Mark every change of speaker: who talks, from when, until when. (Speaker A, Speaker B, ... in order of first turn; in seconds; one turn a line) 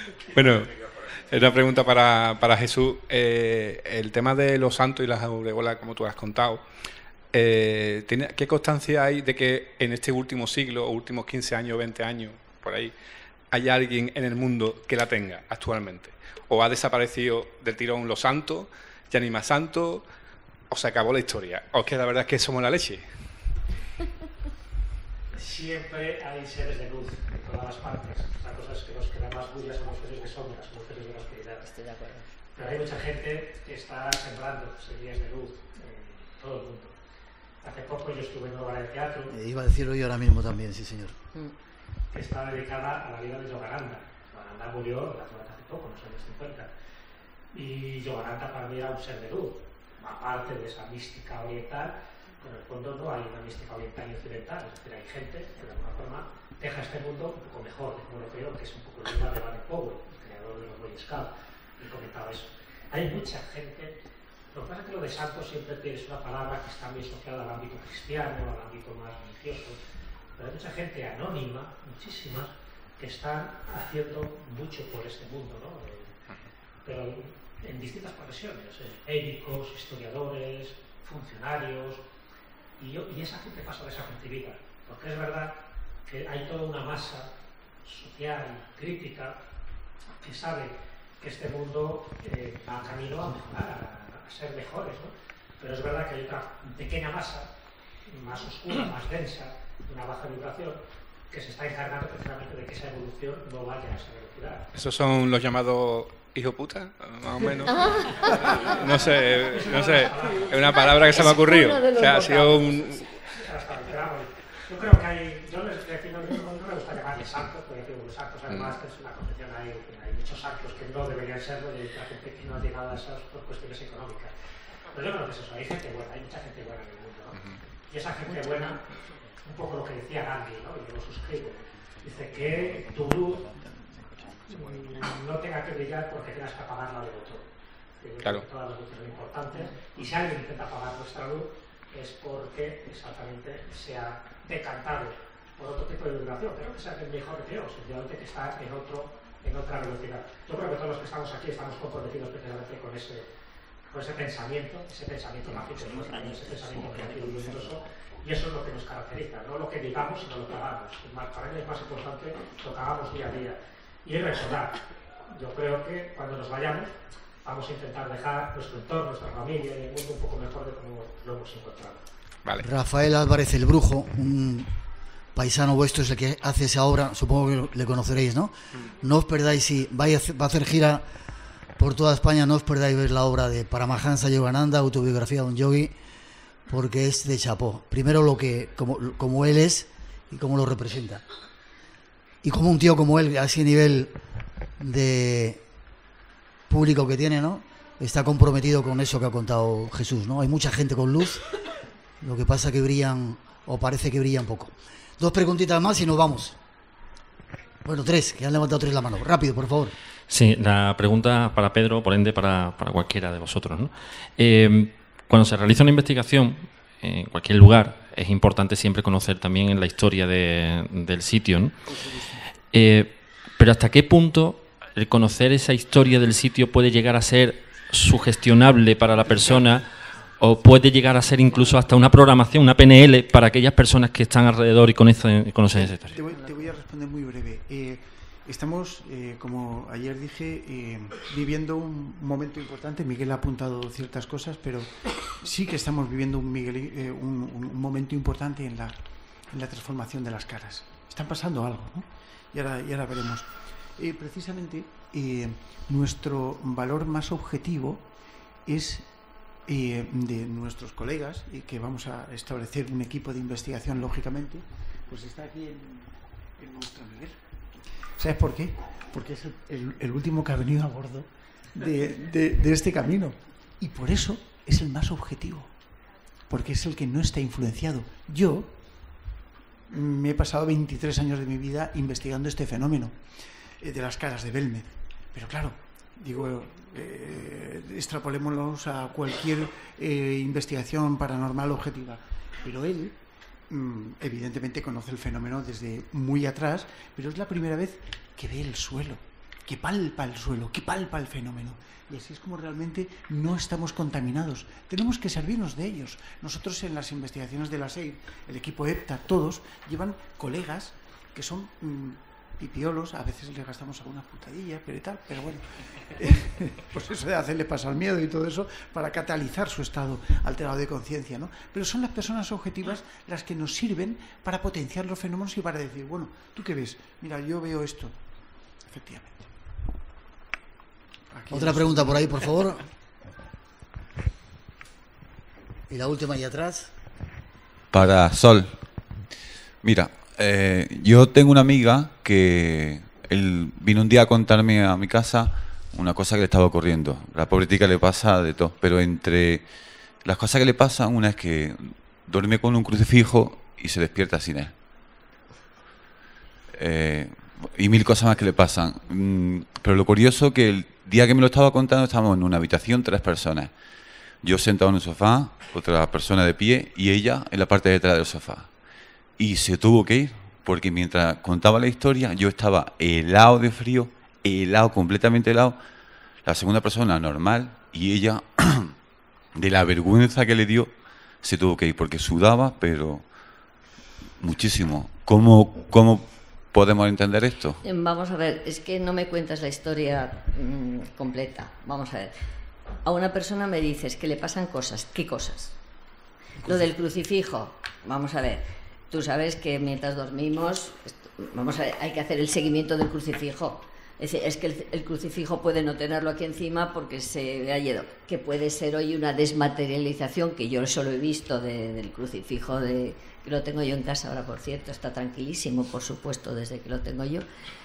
Speaker A: 0.3-6.6
Speaker A: 7.3-12.9
Speaker A: 13.5-20.0
Speaker A: 20.7-23.1
Speaker B: 25.3-31.6
Speaker C: 31.6-32.3
Speaker B: 32.5-36.9
Speaker B: 37.6-39.3
Speaker D: 39.3-41.1
Speaker B: 42.1-46.7
Speaker B: 47.5-64.0
Speaker B: 64.5-69.8
Speaker B: 70.3-76.1
Speaker B: 76.8-82.0
Speaker B: 82.8-87.3
Speaker B: 87.8-89.4
Speaker B: 90.2-97.5
Speaker B: 98.0-104.7
Speaker A: 104.7-113.1
Speaker B: 108.5-111.3
Speaker C: 111.1-113.0
Speaker B: 113.3-124.3
Speaker A: 118.5-118.7
Speaker B: 124.9-128.8
Speaker B: 129.4-133.5
Speaker B: 134.5-137.5
Speaker B: 138.0-153.3
Speaker B: 153.9-164.8
Speaker B: 165.3-172.0
Speaker D: 172.6-174.7
Speaker D: 175.3-181.0
Speaker D: 181.8-185.9
Speaker D: 186.7-191.2
Speaker D: 192.4-194.1
Speaker D: 194.8-195.6
Speaker D: 196.7-201.4
Speaker D: 202.2-206.6
Speaker D: 207.8-209.9
Speaker E: 210.3-221.9
Speaker E: 222.7-236.2
Speaker F: 235.7-248.9
Speaker F: 249.5-258.0
Speaker F: 258.6-259.1
Speaker F: 259.7-267.4
Speaker F: 268.2-275.7
Speaker F: 276.5-278.7
Speaker F: 279.9-283.2
Speaker F: 283.8-293.1
Speaker F: 293.7-328.1
Speaker F: 328.8-329.5
Speaker F: 331.3-332.5
Speaker D: 331.5-332.8
Speaker D: 335.9-336.9
Speaker G: 337.9-338.8
Speaker G: 339.8-349.6
Speaker G: 350.2-354.7
Speaker G: 356.7-363.7
Speaker G: 364.4-368.7
Speaker G: 369.4-375.8
Speaker G: 376.4-378.9
Speaker G: 379.6-380.9
Speaker G: 381.4-383.2
Speaker G: 384.4-387.8
Speaker C: 387.8-392.3
Speaker C: 393.0-395.7
Speaker C: 396.6-417.4